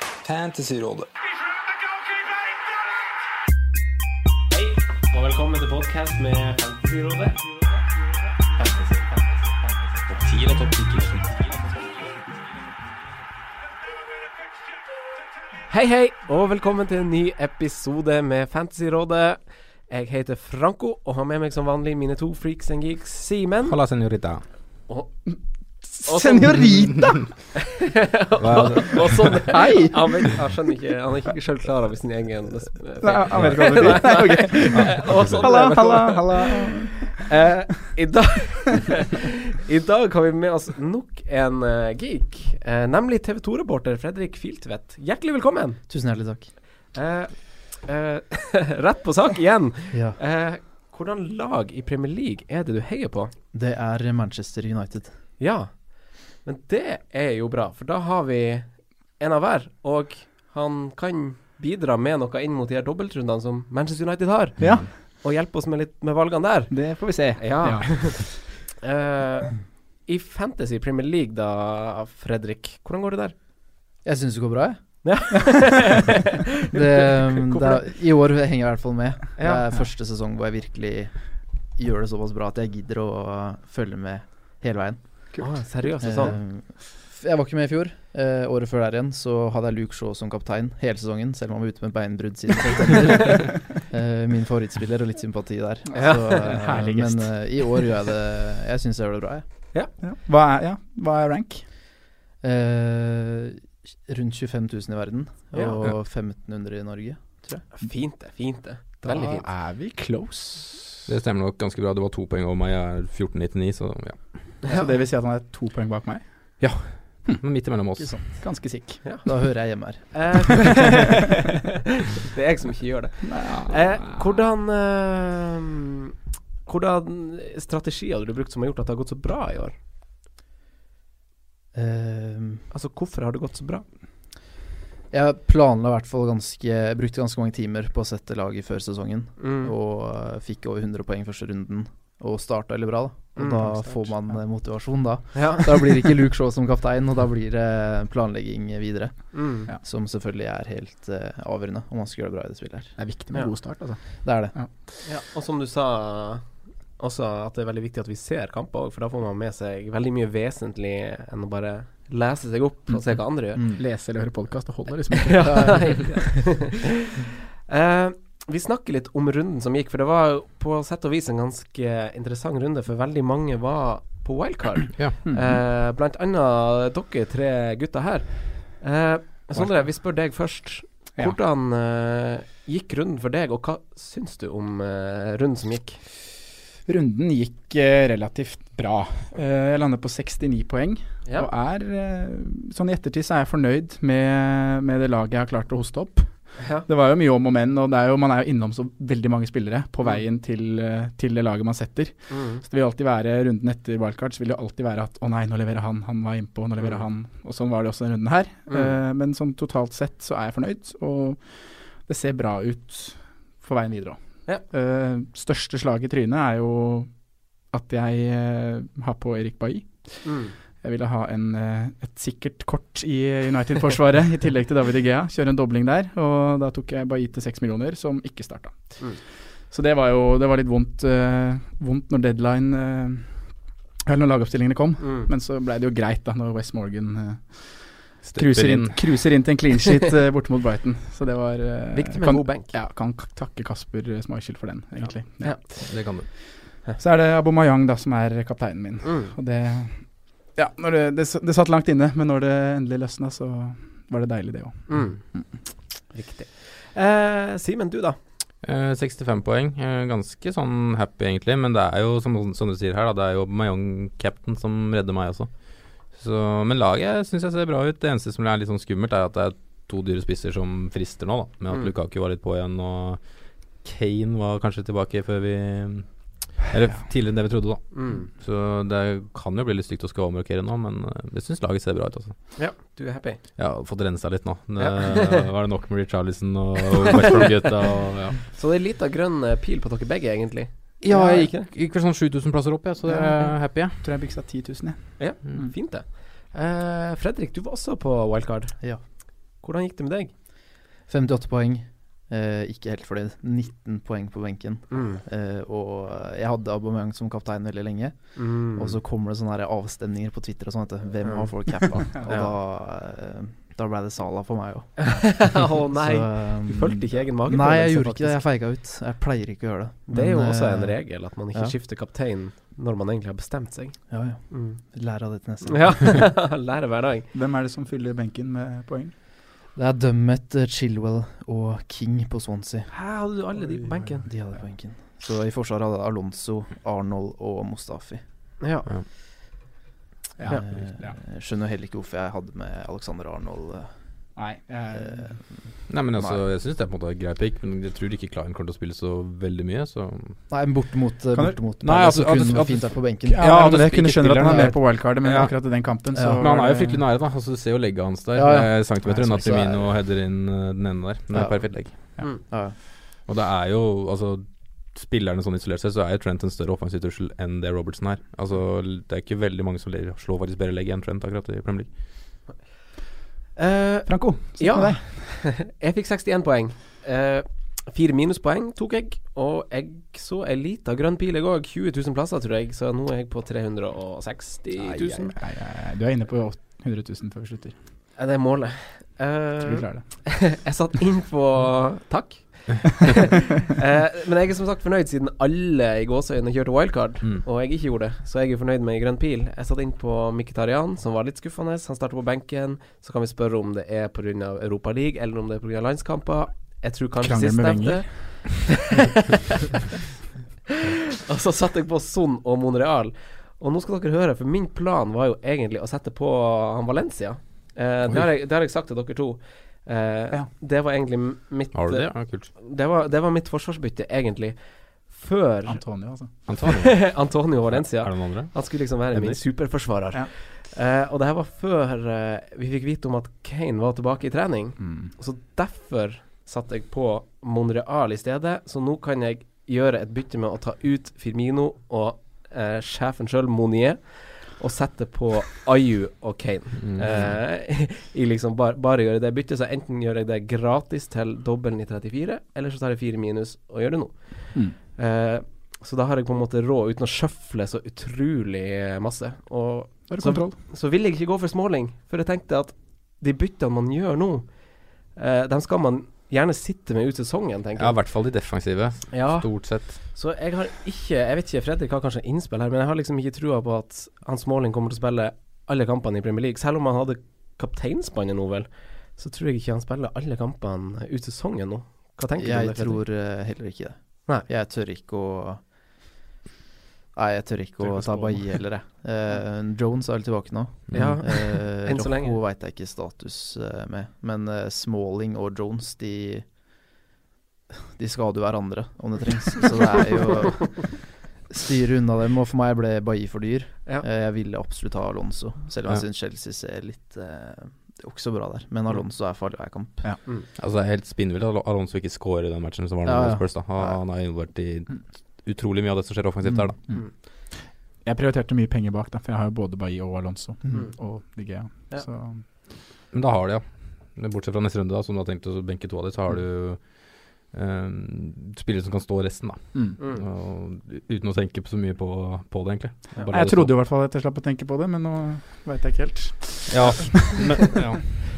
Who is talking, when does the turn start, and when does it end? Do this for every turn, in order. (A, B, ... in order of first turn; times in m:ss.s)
0:00.2-0:01.0 A
0:04.5-0:07.8 B
0:08.5-0:09.9 B
0:10.1-0:11.6 A
0:15.7-0:23.8 B
0:23.7-0:24.4 A
0:24.9-0:25.2 B
0:25.3-0:27.3 C
0:26.0-0:45.8 B
0:28.4-0:29.4 A
0:29.5-0:30.3 C
0:33.0-0:37.3 C
0:33.3-0:35.7 A
0:45.9-0:46.6 D
0:46.9-0:53.3 B
0:49.9-0:50.2 D
0:53.5-0:55.1 D
0:55.4-1:13.4 B
1:04.6-1:04.8 A
1:04.6-1:04.9 C
1:06.7-1:08.4 C
1:14.0-1:15.2 D
1:15.0-1:17.9 B
1:16.7-1:39.4 D
1:19.4-1:19.7 B
1:25.4-1:26.4 B
1:35.9-1:37.8 C
1:36.0-1:36.4 B
1:40.0-1:41.7 C
1:42.4-1:47.5 D
1:45.5-1:45.8 B
1:47.5-1:49.5 B
1:49.0-1:51.1 C
1:51.1-1:54.6 A
1:54.7-1:56.7 C
1:56.6-1:58.4 A
1:58.0-1:59.0 C
1:59.2-2:00.7 D
1:59.9-2:01.4 B
2:02.1-2:06.1 B
2:03.2-2:04.2 C
2:06.6-2:09.8 B
2:11.7-2:12.7 D
2:12.7-2:13.8 B
2:15.1-2:33.0 D
2:19.4-2:19.7 B
2:23.4-2:24.0 B
2:25.3-2:25.7 B
2:29.3-2:29.7 B
2:33.0-2:34.7 C
2:34.2-2:34.6 D
2:35.0-2:43.6 B
2:43.5-2:43.8 D
2:43.7-2:46.0 C
2:45.3-3:06.0 B
2:45.5-2:45.8 D
2:55.2-2:55.6 C
2:59.6-3:00.0 C
3:06.8-4:06.4 C
3:11.2-3:11.5 B
3:16.6-3:16.9 B
3:22.3-3:22.6 B
3:28.7-3:28.9 B
3:40.2-3:40.6 B
3:55.0-3:55.3 B
3:58.2-3:59.3 A
4:01.9-4:02.8 B
4:05.4-4:05.7 B
4:05.6-4:06.3 A
4:07.0-4:15.4 C
4:09.0-4:09.3 B
4:14.9-4:18.2 B
4:18.6-4:42.6 A
4:37.9-4:38.3 B
4:42.6-4:43.4 B
4:43.6-4:48.4 A
4:44.8-4:45.4 B
4:48.5-4:51.7 B
4:51.0-4:54.0 A
4:53.0-4:55.7 C
4:55.2-5:00.3 B
5:01.1-5:21.8 D
5:04.9-5:05.2 B
5:08.4-5:09.0 B
5:11.2-5:12.5 B
5:15.0-5:18.4 B
5:20.1-5:24.8 B
5:24.1-5:26.3 D
5:25.6-5:27.3 B
5:27.3-5:29.1 C
5:29.8-5:32.9 D
5:32.9-5:34.3 B
5:34.2-5:38.2 D
5:38.6-5:38.9 B
5:40.4-5:41.2 C
5:40.5-5:43.9 D
5:44.4-5:45.4 C
5:44.9-5:46.4 D
5:45.9-5:50.4 A
5:50.5-5:53.6 D
5:51.3-5:51.6 C
5:51.8-6:02.6 A
5:53.2-5:57.0 C
5:54.4-5:54.8 D
5:56.1-5:56.5 D
5:58.3-5:59.9 D
6:01.3-6:02.8 D
6:03.2-6:12.1 A
6:13.6-6:25.4 B
6:14.1-6:15.4 C
6:24.8-6:27.8 C
6:28.2-6:49.4 B
6:29.6-6:30.1 C
6:47.2-6:48.5 C
6:50.7-7:05.8 B
7:01.7-7:02.5 A
7:05.7-7:06.3 C
7:06.5-7:09.4 A
7:06.6-7:48.0 B
7:14.8-7:15.1 C
7:26.8-7:27.4 A
7:40.1-7:40.6 C
7:47.8-7:50.0 A
7:49.1-8:03.0 B
8:02.4-8:05.8 D
8:07.1-8:16.5 D
8:07.8-8:08.7 B
8:10.9-8:11.2 A
8:10.9-8:12.4 B
8:18.0-8:30.2 D
8:30.6-8:36.8 A
8:33.0-8:34.0 D
8:36.4-8:36.7 D
8:36.9-8:37.2 C
8:38.0-8:42.4 C
8:43.1-8:53.7 A
8:50.0-8:50.2 B
8:53.3-8:57.6 C
8:56.7-8:58.2 A